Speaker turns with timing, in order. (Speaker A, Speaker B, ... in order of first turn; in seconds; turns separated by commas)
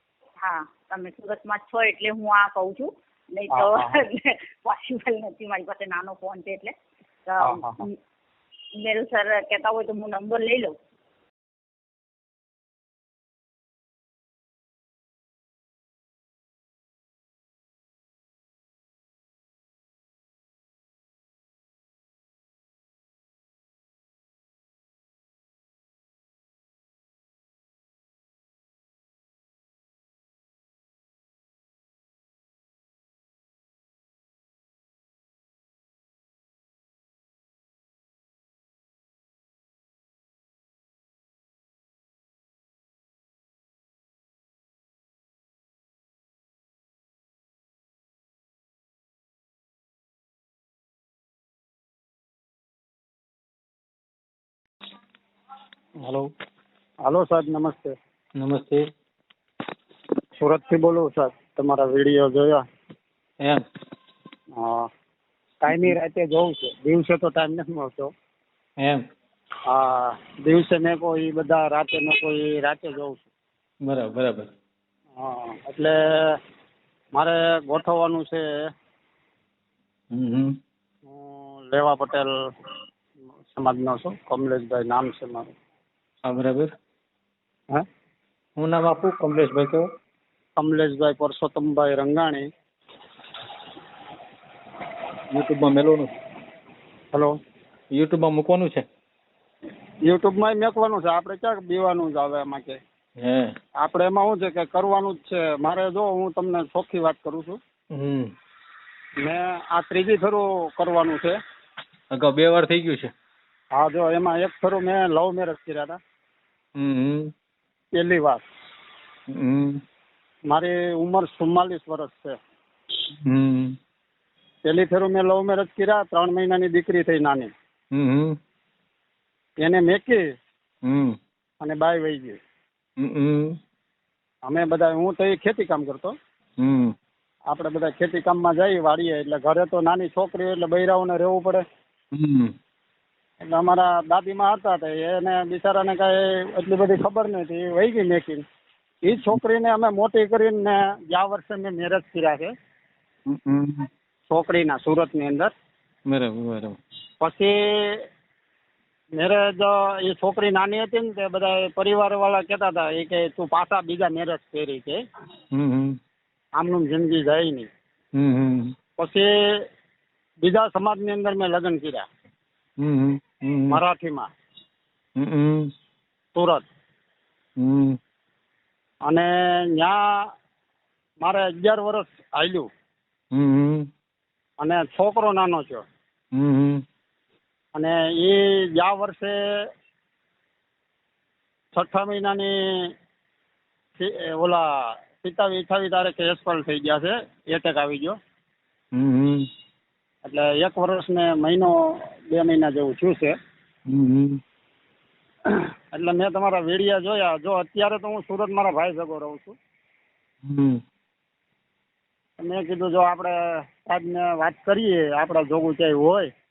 Speaker A: 0.4-8.0, Speaker B: 3.5-4.0, Speaker B: 7.4-7.9, Speaker A: 8.7-10.8, Speaker C: 56.0-56.3, Speaker B: 57.0-57.9, Speaker C: 58.4-58.9, Speaker B: 60.4-62.6, Speaker C: 63.4-63.6, Speaker B: 64.5-64.9, Speaker B: 65.6-68.1, Speaker C: 65.7-65.9, Speaker B: 69.7-73.3, Speaker C: 73.8-74.5, Speaker B: 75.2-76.3, Speaker B: 77.1-78.4, Speaker C: 80.1-80.6, Speaker B: 81.1-82.3, Speaker B: 83.5-85.5, Speaker C: 86.2-86.7, Speaker C: 88.6-89.9, Speaker B: 90.6-92.5, Speaker C: 95.3-96.1, Speaker C: 97.9-98.8, Speaker B: 100.0-102.8, Speaker C: 103.2-103.5, Speaker B: 103.8-107.6, Speaker C: 107.9-108.3, Speaker B: 109.2-111.3, Speaker C: 112.1-113.1, Speaker B: 113.7-116.0, Speaker C: 116.8-117.3, Speaker B: 117.9-118.4, Speaker C: 119.3-119.8, Speaker B: 120.5-122.4, Speaker C: 123.2-123.8, Speaker B: 124.7-127.5, Speaker C: 127.9-128.4, Speaker B: 129.6-130.2, Speaker C: 130.8-131.2, Speaker B: 131.6-132.4, Speaker C: 133.0-133.6, Speaker B: 134.5-136.1, Speaker C: 136.6-136.9, Speaker B: 137.5-141.6, Speaker C: 142.1-142.5, Speaker B: 143.5-148.4, Speaker B: 149.1-152.5, Speaker C: 153.3-153.9, Speaker B: 154.3-155.5, Speaker C: 156.1-156.8, Speaker B: 157.2-158.0, Speaker B: 159.2-165.0, Speaker C: 165.5-166.0, Speaker B: 166.6-167.7, Speaker C: 168.1-168.7, Speaker B: 169.0-169.3, Speaker B: 170.4-172.1, Speaker C: 172.8-173.8, Speaker B: 173.7-174.3, Speaker C: 175.2-175.7, Speaker B: 176.3-176.7, Speaker C: 177.6-178.0, Speaker B: 179.1-180.0, Speaker B: 181.2-182.7, Speaker C: 183.3-183.9, Speaker B: 184.6-185.8, Speaker C: 186.3-186.8, Speaker B: 187.7-189.3, Speaker B: 191.7-192.9, Speaker B: 194.0-198.2, Speaker C: 198.9-199.5, Speaker B: 200.2-203.3, Speaker C: 203.9-204.4, Speaker B: 205.9-209.6, Speaker C: 210.4-210.8, Speaker B: 212.4-216.3